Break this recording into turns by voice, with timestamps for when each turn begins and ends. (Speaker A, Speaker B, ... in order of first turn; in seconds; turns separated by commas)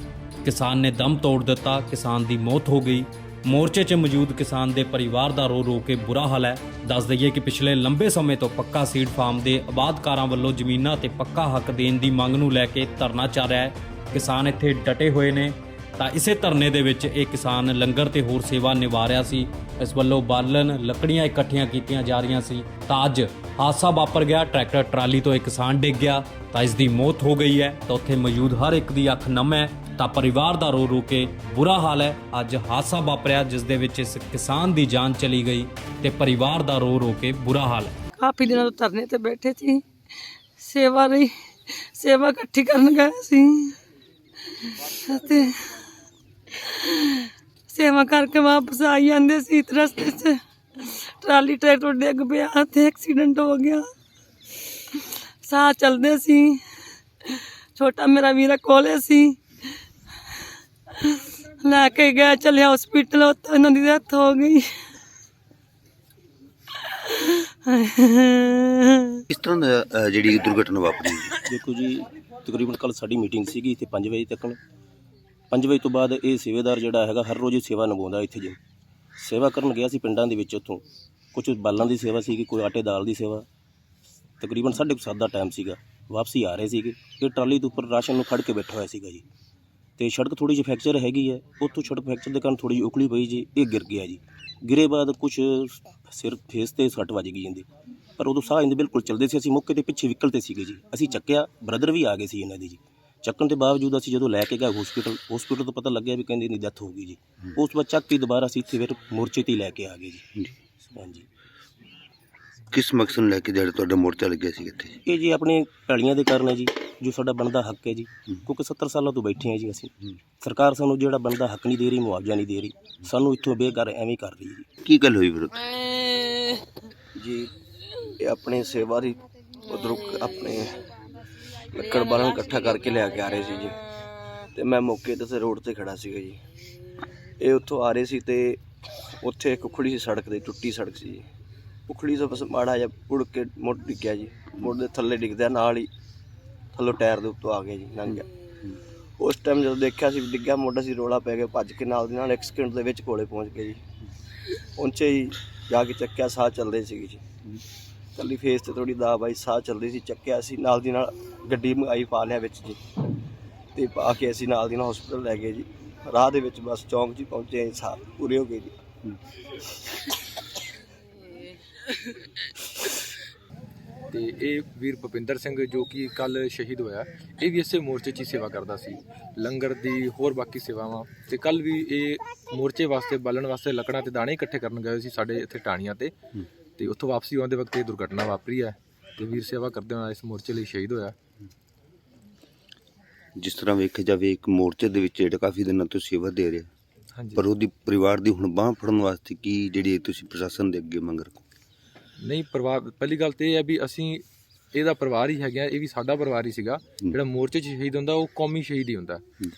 Speaker A: 0.4-38.0, Speaker B: 38.2-39.8, Speaker B: 40.6-43.8, Speaker B: 44.6-45.7, Speaker B: 46.6-53.8, Speaker B: 55.4-56.6, Speaker B: 57.3-59.4, Speaker B: 61.0-64.6, Speaker B: 66.8-69.2, Speaker C: 69.3-71.3, Speaker D: 71.5-74.6, Speaker D: 75.5-78.6, Speaker D: 79.2-80.8, Speaker D: 81.3-83.5, Speaker D: 84.4-89.2, Speaker D: 90.0-110.4, Speaker D: 111.0-111.2, Speaker C: 112.7-115.0, Speaker D: 115.0-124.7, Speaker C: 124.8-125.6, Speaker E: 127.2-127.5, Speaker E: 128.2-130.8, Speaker E: 131.7-133.8, Speaker E: 134.5-136.4, Speaker E: 137.4-138.6, Speaker E: 139.2-141.2, Speaker E: 141.9-145.9, Speaker E: 146.7-148.2, Speaker E: 149.2-153.8, Speaker E: 154.8-157.2, Speaker E: 158.2-162.8, Speaker E: 163.7-168.8, Speaker F: 174.1-186.1, Speaker F: 186.8-191.1, Speaker C: 193.4-196.7, Speaker C: 197.3-201.4, Speaker F: 202.2-209.2